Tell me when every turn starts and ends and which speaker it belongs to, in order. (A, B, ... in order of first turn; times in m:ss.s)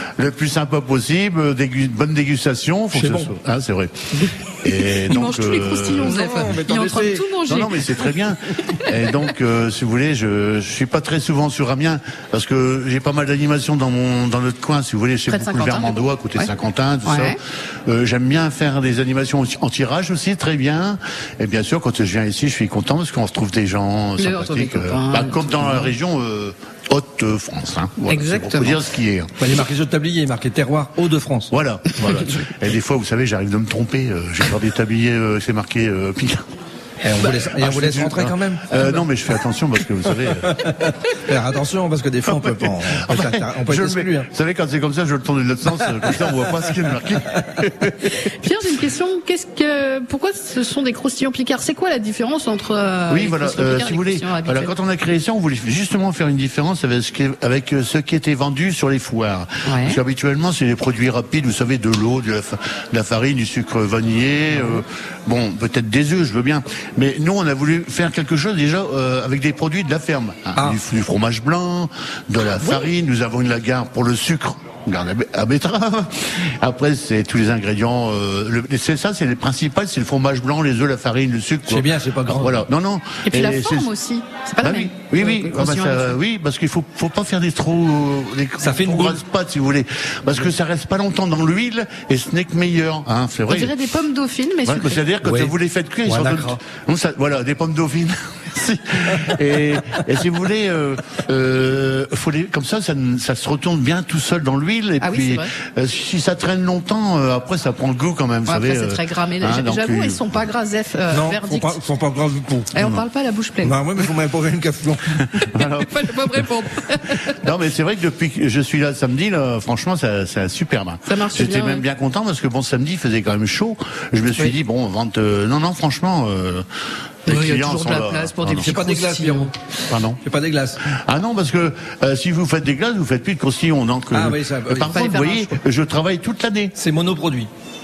0:00.2-0:04.0 A
0:02.9-0:03.3 B
0:04.6-0:06.1 A
0:04.9-0:08.2 C
0:06.0-0:07.3 B
0:07.4-0:17.4 A
0:08.9-0:09.1 C
0:15.3-0:16.5 C
0:17.0-0:17.4 C
0:17.9-0:29.3 A
0:24.2-0:25.9 C
0:28.1-0:28.8 C
0:29.4-0:31.5 B
0:31.5-0:36.5 A
0:37.0-0:39.0 B
0:37.2-0:40.6 A
0:40.4-0:44.3 B
0:42.3-0:48.1 A
0:46.0-0:46.6 B
0:48.1-0:54.7 C
0:53.1-1:23.9 A
0:59.6-1:00.0 C
1:12.6-1:12.9 B
1:21.7-1:22.6 B
1:23.3-1:26.2 C
1:24.6-1:33.7 A
1:28.6-1:29.2 B
1:33.5-1:35.0 C
1:34.6-1:50.2 A
1:35.2-1:36.6 B
1:45.0-1:45.5 C
1:48.5-1:51.8 C
1:51.1-1:52.7 B
1:52.7-1:53.8 C
1:52.8-1:53.0 A
1:53.6-1:55.3 B
1:55.4-1:57.3 C
1:55.5-1:56.1 A
1:57.4-2:06.6 A
2:01.1-2:01.8 C
2:07.3-2:08.8 A
2:07.3-2:09.5 C
2:08.6-2:09.6 B
2:09.9-2:10.2 A
2:10.2-2:10.8 B
2:10.9-2:16.7 A
2:14.1-2:15.0 B
2:14.9-2:15.6 C
2:16.8-2:17.5 B